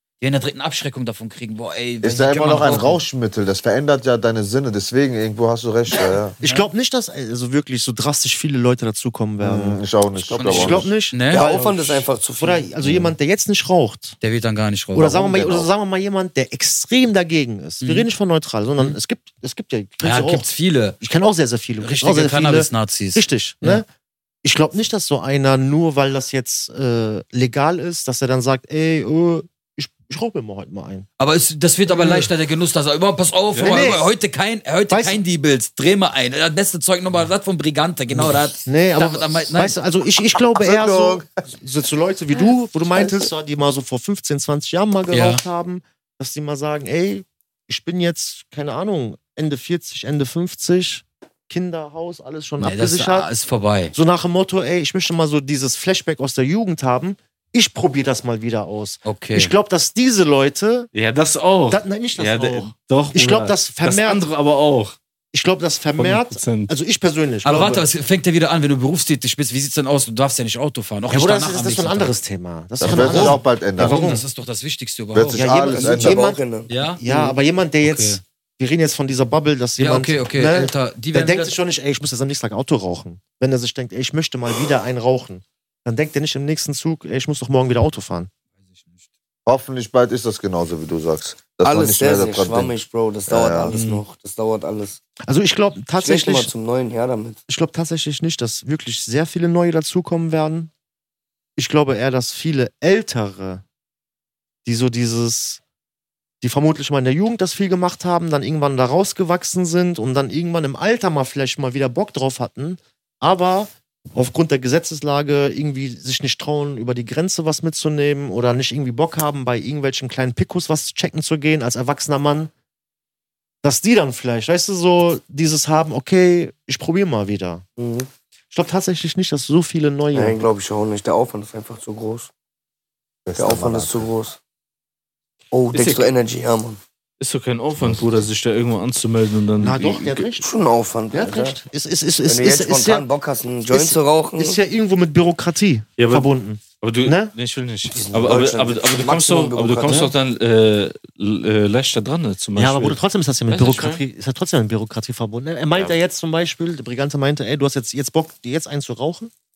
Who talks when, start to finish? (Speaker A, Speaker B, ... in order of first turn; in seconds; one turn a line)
Speaker A: 0.2-3.0
Speaker B: 2.0-6.3
Speaker C: 6.4-9.8
Speaker B: 9.4-12.0
Speaker D: 10.2-12.7
Speaker A: 10.3-11.4
Speaker C: 10.4-11.6
Speaker C: 12.4-14.2
Speaker B: 12.8-13.1
Speaker A: 14.2-15.7
Speaker C: 14.9-20.5
Speaker A: 17.8-18.1
Speaker A: 20.0-21.0
Speaker C: 21.0-23.9
Speaker A: 21.8-23.8
Speaker C: 24.4-31.1
Speaker A: 31.2-39.8
Speaker C: 31.9-32.3
Speaker E: 33.5-33.9
Speaker C: 33.6-34.1
Speaker C: 34.9-35.2
Speaker C: 38.1-53.3
Speaker B: 40.5-41.3
Speaker A: 45.1-45.4
Speaker A: 52.6-54.0
Speaker C: 53.9-60.9
Speaker A: 59.0-59.5
Speaker E: 60.9-65.0
Speaker C: 61.7-64.3
Speaker C: 65.3-67.9
Speaker E: 66.0-66.7
Speaker A: 67.4-72.2
Speaker C: 71.1-74.2
Speaker B: 72.8-74.0
Speaker A: 72.9-75.6
Speaker B: 75.1-76.3
Speaker C: 75.2-76.4
Speaker D: 75.7-77.4
Speaker A: 76.7-77.0
Speaker C: 77.0-88.3
Speaker A: 77.8-78.2
Speaker A: 79.8-81.5
Speaker B: 89.5-92.7
Speaker D: 91.6-95.0
Speaker B: 93.3-93.8
Speaker E: 93.7-94.0
Speaker C: 95.3-96.5
Speaker D: 96.0-97.4
Speaker C: 97.5-100.7
Speaker C: 101.6-103.6
Speaker C: 104.7-105.6
Speaker C: 106.4-122.5
Speaker C: 123.6-127.6
Speaker D: 127.8-128.1
Speaker C: 128.5-130.4
Speaker D: 130.1-132.3
Speaker B: 133.3-134.1
Speaker D: 133.4-134.4
Speaker D: 135.5-136.8
Speaker E: 135.7-136.1
Speaker E: 137.2-140.2
Speaker C: 139.6-140.5
Speaker D: 140.2-141.6
Speaker C: 141.1-143.1
Speaker D: 142.3-144.6
Speaker C: 143.7-147.3
Speaker E: 146.0-154.0
Speaker D: 148.1-150.1
Speaker C: 149.9-150.1
Speaker C: 152.6-159.3